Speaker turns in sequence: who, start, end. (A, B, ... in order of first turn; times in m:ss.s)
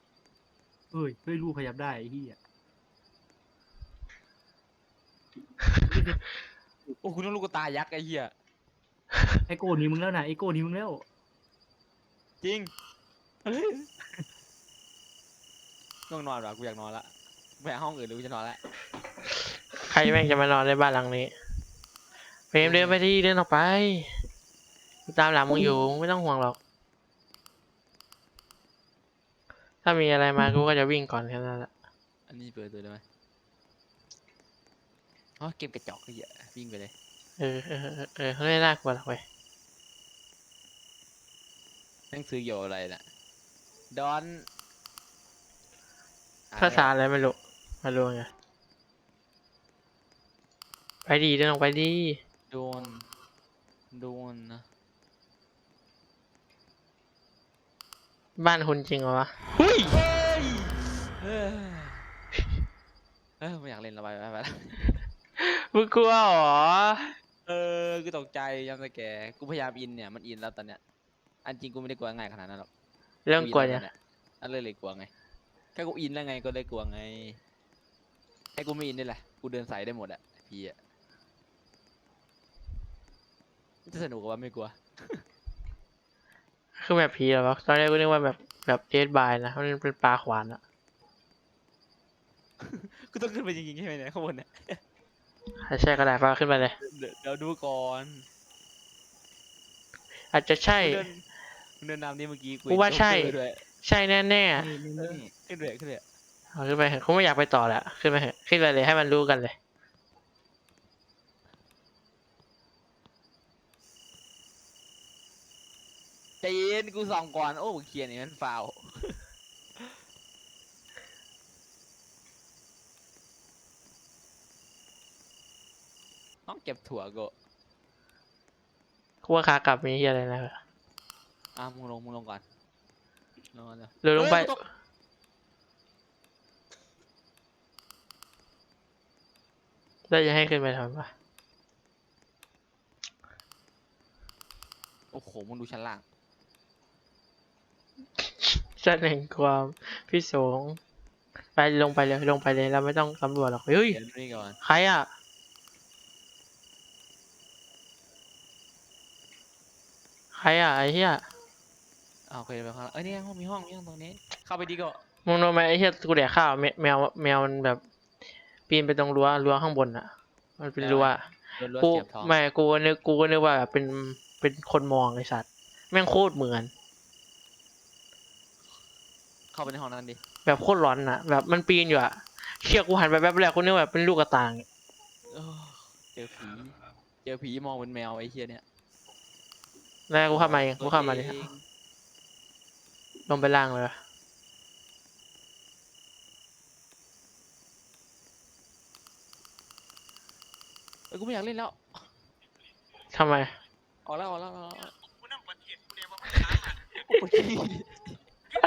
0:00.9-0:02.4 A
0:05.9-0:06.2 A
0:06.9-0:08.3 B
0:09.5-0:11.0 A
0:12.4-0:12.7 B
0:13.4-0:13.9 B
0:16.1-0:18.6 B
0:19.8-0:21.3 C
0:22.5-0:24.2 C
0:22.6-0:23.0 B
0:25.1-0:26.6 C
0:29.8-0:31.7 C
0:32.3-0:33.0 B
0:35.4-0:36.9 B
0:37.4-0:39.2 C
0:42.1-0:43.0 B
0:43.9-0:44.5 B
0:46.5-0:46.9 B
0:46.6-0:48.3 C
0:51.0-0:52.2 C
0:52.5-0:53.0 B
0:53.9-0:54.6 B
0:58.4-1:00.0 C
0:59.8-1:02.0 B
1:03.4-1:04.9 B
1:05.4-1:07.1 C
1:07.5-1:10.8 B
1:11.4-1:12.7 B
1:13.3-1:13.8 C
1:13.4-1:15.1 B
1:15.7-1:17.4 B
1:18.6-1:20.8 B
1:23.8-1:25.2 B
1:26.8-1:30.6 C
1:32.6-1:34.8 B
1:35.6-1:36.7 C
1:36.8-1:38.2 B
1:40.3-1:41.0 C
1:40.7-1:41.2 B
1:41.8-1:43.6 B
1:42.7-1:44.7 C
1:44.5-1:45.2 A
1:45.0-1:46.0 B
1:46.5-1:49.5 C
1:56.4-1:59.2 B
2:06.5-2:07.3 B
2:09.2-2:10.6 C
2:11.5-2:12.4 B
2:13.5-2:14.6 B
2:14.0-2:14.6 C
2:20.1-2:21.1 C
2:25.1-2:26.0 B
2:28.2-2:30.8 C
2:31.5-2:34.0 C
2:33.9-2:34.6 B
2:34.6-2:35.1 C
2:40.3-2:41.2 C
2:42.3-2:45.0 B
2:45.2-2:47.8 C
2:48.7-2:51.3 C
2:50.8-2:52.3 B
2:51.8-2:56.7 C
2:59.5-3:00.2 B
3:00.4-3:04.6 C
3:05.3-3:08.6 B
3:10.1-3:11.4 C
3:10.3-3:11.6 B
3:13.3-3:14.0 C
3:21.1-3:21.8 B
3:23.1-3:23.5 C
3:24.0-3:24.9 B
3:26.6-3:28.1 B